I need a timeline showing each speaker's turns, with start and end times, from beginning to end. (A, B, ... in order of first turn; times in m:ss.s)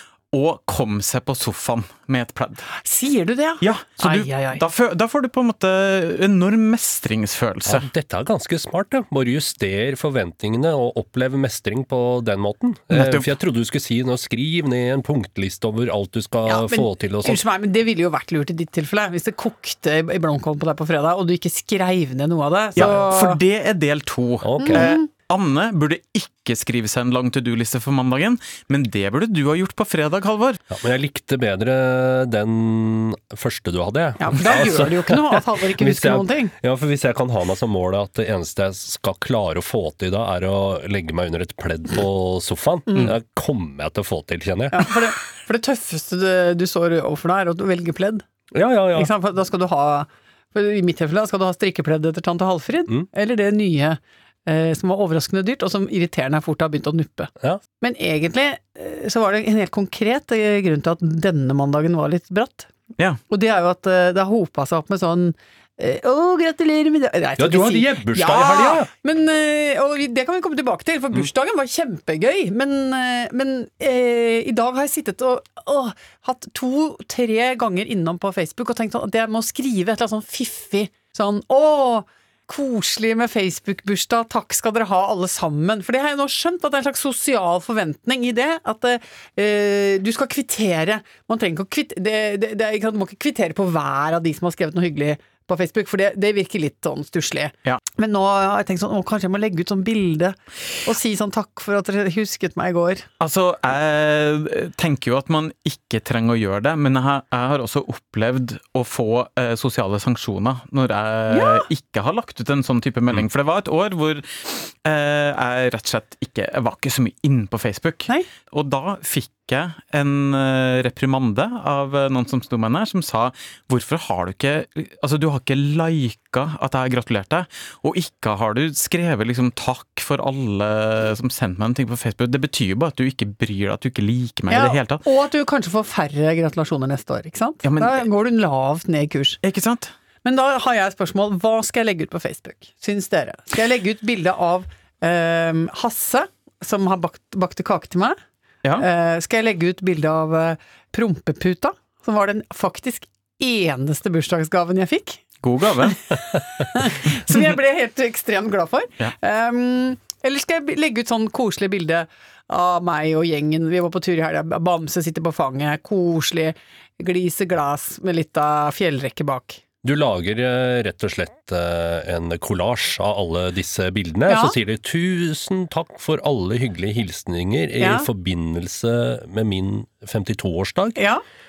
0:00.3-0:02.7 A
0:02.8-0:04.6 B
0:03.6-0:07.9 A
0:07.7-0:17.4 C
0:12.9-0:13.3 A
0:16.5-0:23.4 B
0:22.8-0:30.6 A
0:24.4-0:24.9 C
0:24.6-0:25.0 B
0:30.7-0:45.0 C
0:34.2-0:36.5 B
0:44.7-0:48.2 B
0:48.5-0:49.1 C
0:48.9-1:02.7 B
1:03.3-1:43.1 B
1:07.4-1:08.9 C
1:43.2-2:15.0 A
1:51.3-1:51.6 B
2:14.5-2:19.4 B
2:17.6-2:18.0 A
2:19.4-2:19.9 A
2:20.2-2:28.2 B
2:28.8-2:35.2 B
2:35.4-2:36.0 A
2:35.9-2:49.6 B
2:49.8-3:01.0 C
2:54.3-2:54.6 B
2:57.8-2:58.1 B
3:01.0-3:01.2 B